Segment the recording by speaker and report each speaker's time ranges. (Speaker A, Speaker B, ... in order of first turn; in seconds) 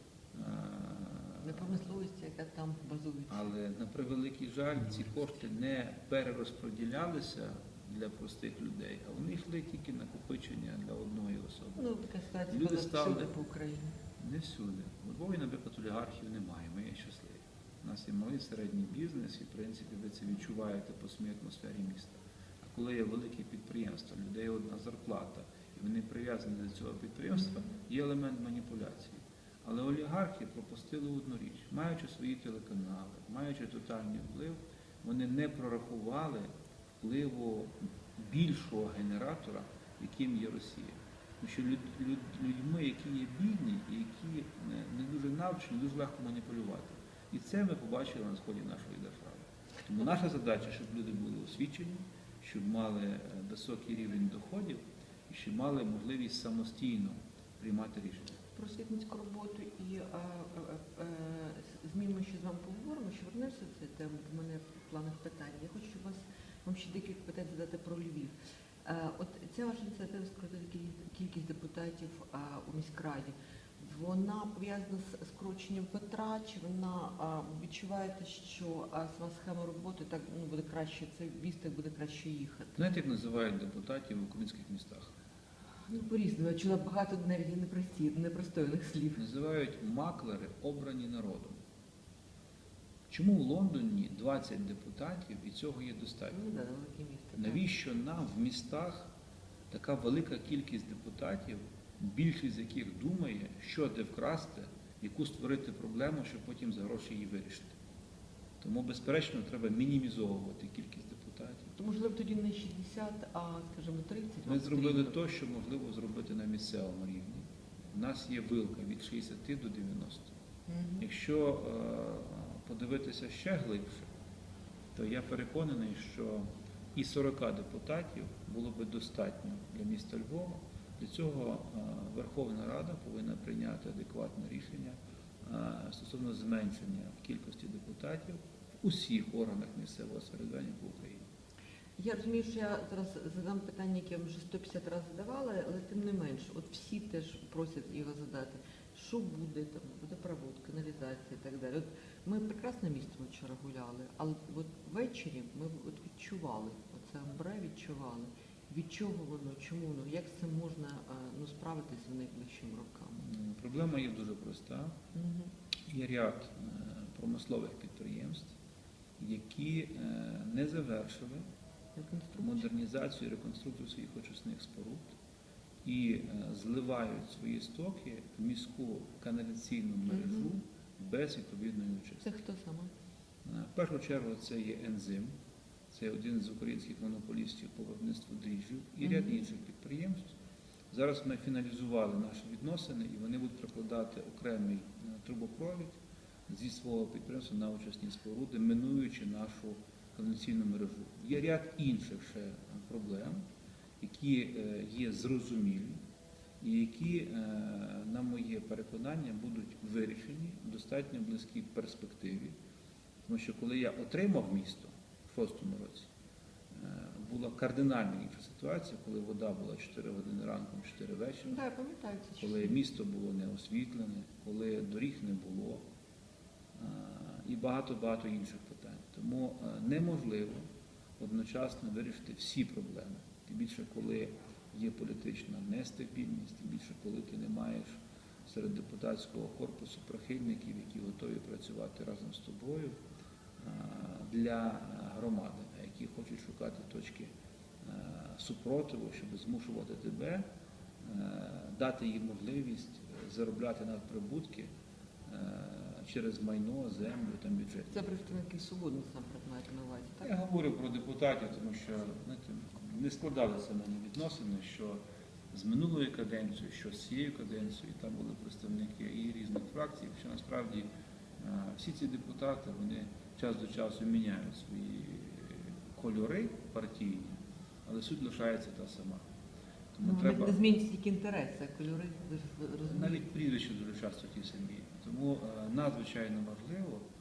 Speaker A: 0.3-1.7, 3.3-11.9, 12.5-13.3, 14.2-58.4, 82.8-85.1, 89.2-91.6, 93.1-96.4, 97.4-99.1, 99.7-107.7, 108.6-111.7, 114.5-120.3, 121.0-124.1, 125.0-141.3, 163.2-165.0, 165.9-168.5, 169.2-171.4, 172.4-175.1, 175.8-182.3, 183.4-185.3, 185.9-190.3, 190.9-203.4, 204.0-206.0, 206.6-212.6, 213.2-216.1, 216.7-221.6, 222.4-225.8, 226.8-230.7, 231.2-243.0, 243.6-250.4, 251.0-254.7, 255.3-258.1, 260.2-265.0, 265.5-270.9, 271.4-279.3, 279.9-280.6, 282.9-287.1
Speaker B: 1.4-3.5, 11.8-13.9, 58.5-68.3, 68.8-82.8, 85.9-89.2, 96.3-97.6, 111.8-115.2, 120.7-121.0, 142.0-163.3, 165.1-165.5, 172.0-172.7, 180.1-180.5, 182.2-182.9, 189.0-189.4, 221.5-222.8, 257.9-260.3, 280.0-283.2